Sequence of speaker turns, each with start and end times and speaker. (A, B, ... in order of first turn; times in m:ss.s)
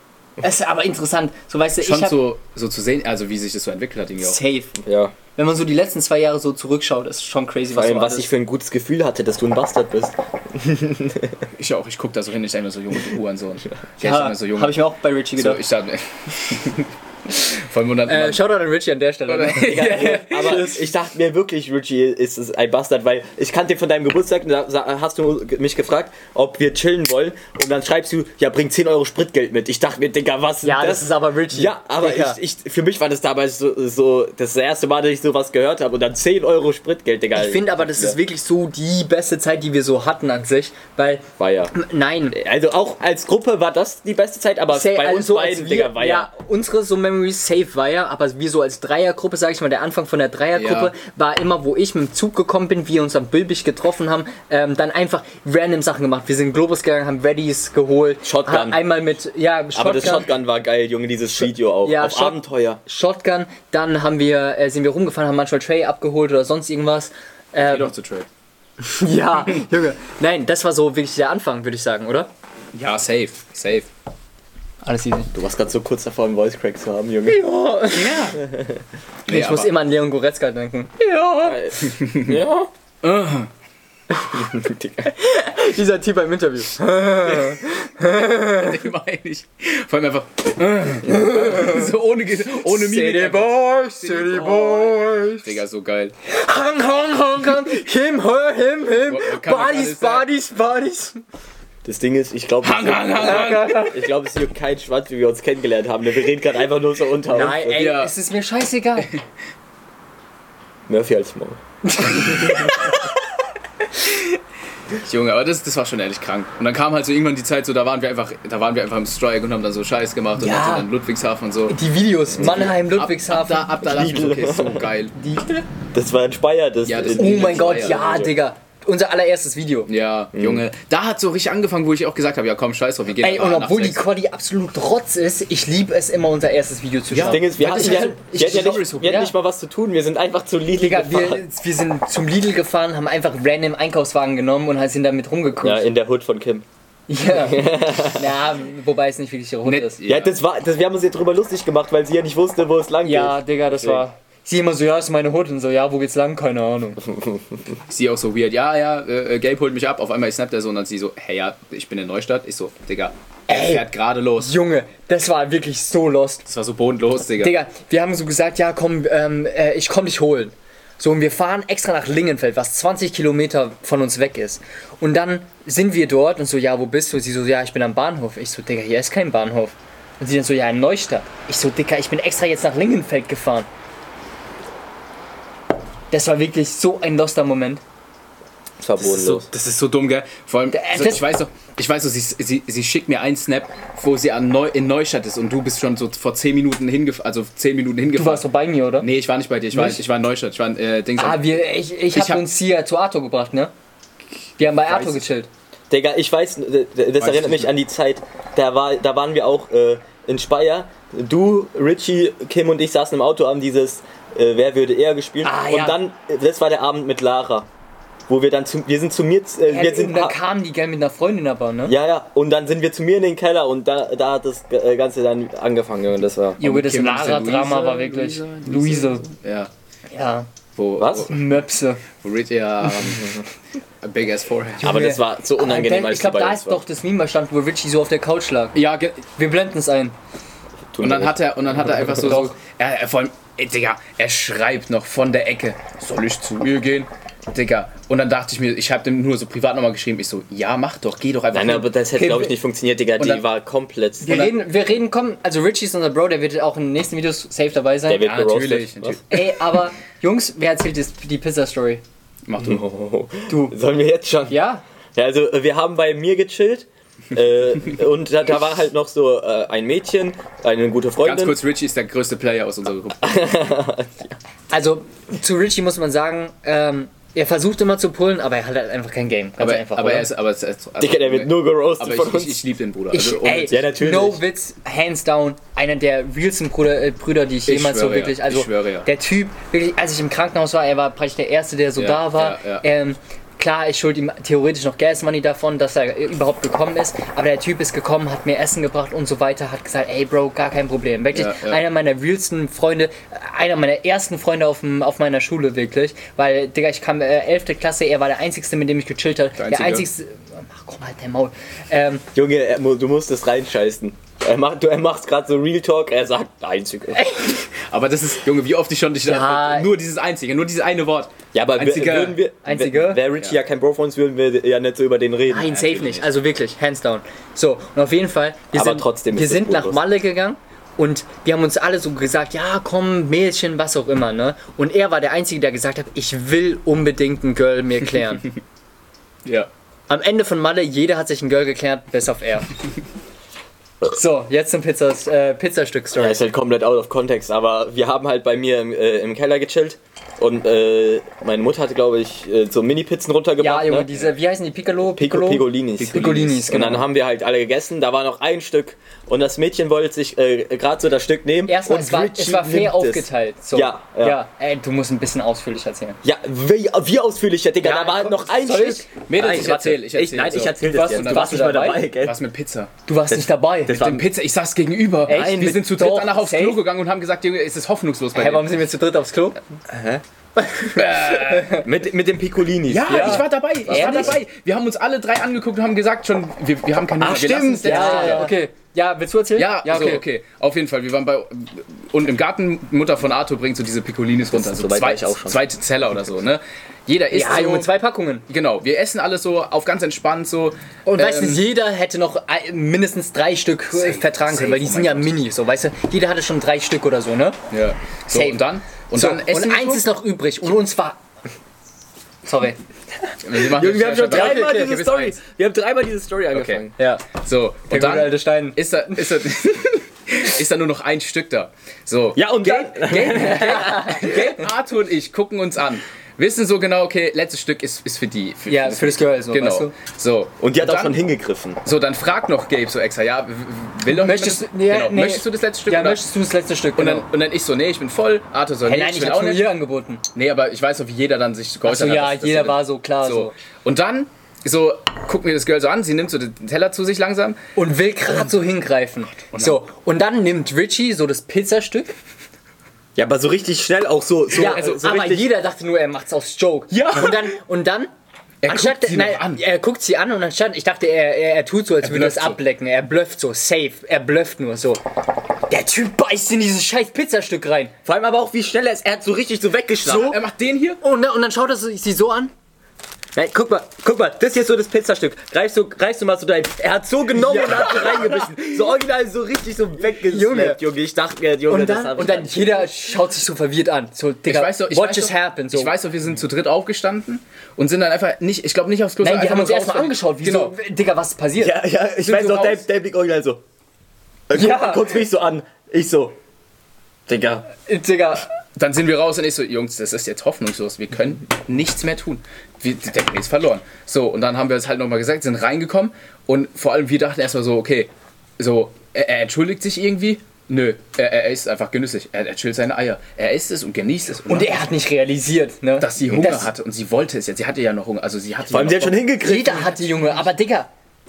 0:00.4-0:02.2 A
0:01.8-0:04.4 B
0:04.2-0:04.8 A
0:04.8-0:05.1 C
0:05.4-0:08.3 A
0:07.7-0:11.4 C
0:11.6-0:18.6 B
0:14.0-0:15.6 A
0:18.1-0:20.9 A
0:19.3-0:20.7 B
0:19.6-0:38.2 C
0:30.6-0:32.4 A
0:37.4-0:42.4 A
0:41.4-0:41.7 C
0:42.3-0:46.3 C
0:44.7-1:00.3 A
0:50.6-0:50.9 B
0:58.2-0:58.9 C
0:59.8-1:02.8 C
1:01.8-1:07.9 A
1:07.6-1:08.3 B
1:08.8-1:12.3 A
1:12.8-1:13.9 B
1:14.8-1:15.3 A
1:15.3-1:17.4 C
1:17.3-1:18.3 A
1:17.9-1:18.4 B
1:18.4-1:18.8 C
1:19.3-1:19.7 B
1:19.3-1:21.6 A
1:21.4-1:22.7 C
1:21.8-1:22.4 B
1:23.0-1:23.5 B
1:24.3-1:25.1 C
1:25.0-1:28.8 A
1:28.5-1:36.1 B
1:31.1-1:31.9 A
1:32.6-1:35.6 A
1:36.3-1:41.2 A
1:39.0-1:40.3 B
1:41.8-1:47.7 C
1:42.6-1:43.9 B
1:43.2-1:44.0 A
1:47.3-1:49.1 A
1:47.7-1:48.1 B
1:50.9-1:52.6 C
1:51.9-1:52.9 A
1:54.9-2:01.8 B
2:00.4-2:00.9 A
2:01.7-2:03.8 A
2:02.4-2:02.7 C
2:02.4-2:05.1 B
2:03.8-2:04.9 C
2:05.2-2:05.6 A
2:05.9-2:08.3 C
2:06.8-2:08.2 B
2:07.2-2:09.9 A
2:09.9-2:14.1 B
2:10.4-2:10.6 C
2:13.2-2:19.3 A
2:17.1-2:19.1 B
2:17.2-2:21.4 C
2:20.8-2:25.9 A
2:25.6-2:26.7 C
2:27.1-2:30.0 A
2:27.3-2:28.3 C
2:29.6-2:30.4 B
2:30.0-2:34.0 C
2:33.0-2:37.0 A
2:37.0-2:37.7 C
2:37.9-2:44.6 B
2:43.5-2:43.9 A
2:44.4-2:46.5 A
2:46.5-2:47.6 B
2:47.4-3:03.7 A
3:06.1-3:07.8 A
3:08.8-3:09.5 C
3:09.0-3:18.5 B
3:10.7-3:11.3 A
3:18.2-3:19.1 A
3:19.0-3:21.6 B
3:19.7-3:20.0 A
3:21.2-3:23.7 A
3:22.1-3:22.4 B
3:24.6-3:25.5 A
3:24.7-3:25.2 B
3:25.9-3:37.7 C
3:27.2-3:27.7 B
3:35.4-3:36.0 A
3:38.3-3:40.4 C
3:39.7-3:42.0 A
3:41.9-3:46.6 C
3:46.6-3:49.3 A
3:46.6-3:49.7 B
3:50.1-3:50.5 A
3:50.8-3:51.4 B
3:51.0-3:51.3 C
3:51.3-3:52.0 A
3:52.1-3:53.4 B
3:54.0-3:55.0 B
3:54.8-3:58.8 A
3:54.8-3:56.8 C
3:58.7-3:59.2 B
3:59.4-4:00.2 A
4:00.9-4:01.5 C
4:01.0-4:11.9 B
4:02.0-4:02.6 A
4:11.5-4:14.5 C
4:12.2-4:12.5 A
4:13.2-4:13.4 B
4:14.2-4:18.3 A
4:14.3-4:14.6 B
4:18.1-4:19.2 C
4:18.2-4:19.6 B
4:19.3-4:22.0 A
4:22.5-4:22.8 B
4:22.6-4:24.6 C
4:23.5-4:23.8 A
4:24.5-4:24.8 A
4:25.2-4:31.6 C
4:31.2-4:33.6 B
4:33.2-4:34.4 C
4:34.7-4:40.3 A
4:39.6-4:43.9 B
4:41.0-4:42.6 C
4:43.1-5:12.2 A
4:43.7-4:44.4 C
4:47.7-4:49.1 B
4:52.0-4:52.8 B
5:01.3-5:01.8 B
5:09.6-5:10.1 B
5:12.3-5:17.3 C
5:17.1-5:17.6 A
5:17.8-5:22.4 B
5:19.2-5:19.9 A
5:21.5-5:25.9 C
5:22.6-5:23.2 A
5:25.5-5:38.5 A
5:25.8-5:26.2 B
5:28.7-5:30.0 C
5:40.1-5:42.7 A
5:44.1-5:46.4 A
5:46.2-5:54.1 C
5:53.6-5:57.0 A
5:55.1-6:04.4 C
5:56.0-5:56.7 B
6:01.7-6:06.2 A
6:06.2-6:12.4 C
6:07.8-6:09.9 A
6:09.3-6:12.9 B
6:10.8-6:12.0 A
6:13.1-6:14.1 A
6:13.3-6:14.3 C
6:13.9-6:18.8 B
6:15.3-6:16.8 A
6:15.3-6:15.8 C
6:18.3-6:19.6 A
6:19.9-6:20.2 C
6:20.6-6:21.8 A
6:20.9-6:21.9 B
6:21.7-6:24.4 C
6:22.9-6:28.5 B
6:23.1-6:24.4 A
6:27.2-6:28.6 C
6:27.8-6:30.2 A
6:29.6-6:37.9 B
6:34.5-6:35.6 C
6:37.3-6:38.4 A
6:38.5-6:41.6 B
6:41.1-6:47.6 A
6:43.9-6:45.3 B
6:47.7-6:50.0 B
6:48.3-6:48.6 A
6:49.1-6:51.2 A
6:52.4-6:52.8 A
6:53.4-6:55.3 B
6:53.6-6:57.0 C
6:54.3-6:55.2 A
6:56.5-7:11.2 B
6:57.0-6:57.3 A
6:57.9-6:58.8 A
7:02.4-7:04.3 C
7:03.1-7:04.6 A
7:08.7-7:09.9 A
7:10.6-7:11.8 C
7:11.8-7:16.2 B
7:14.1-7:17.3 A
7:17.0-7:19.8 B
7:18.8-7:20.2 A
7:20.3-7:27.6 B
7:21.8-7:23.6 A
7:27.8-7:32.2 A
7:29.5-7:29.8 B
7:33.2-7:35.5 C
7:34.5-7:38.1 A
7:34.6-7:35.0 B
7:36.9-7:37.5 B
7:38.6-7:39.6 B
7:38.7-7:45.0 A
7:42.0-7:42.6 B
7:45.7-7:47.9 A
7:48.0-7:50.4 C
7:50.1-7:51.0 B
7:51.0-7:52.5 A
7:53.4-8:02.9 C
7:57.4-7:58.0 A
7:57.6-7:58.8 B
8:00.3-8:00.8 A
8:01.7-8:05.9 A
8:04.5-8:10.8 B
8:09.2-8:11.8 A
8:11.6-8:13.6 C
8:12.2-8:12.8 B
8:14.5-8:16.4 C
8:14.5-8:15.2 A
8:17.3-8:17.7 C
8:17.8-8:18.5 A
8:18.8-8:34.8 B
8:34.5-8:36.7 A
8:36.0-8:39.2 B
8:38.7-8:40.0 C
8:39.4-8:40.9 A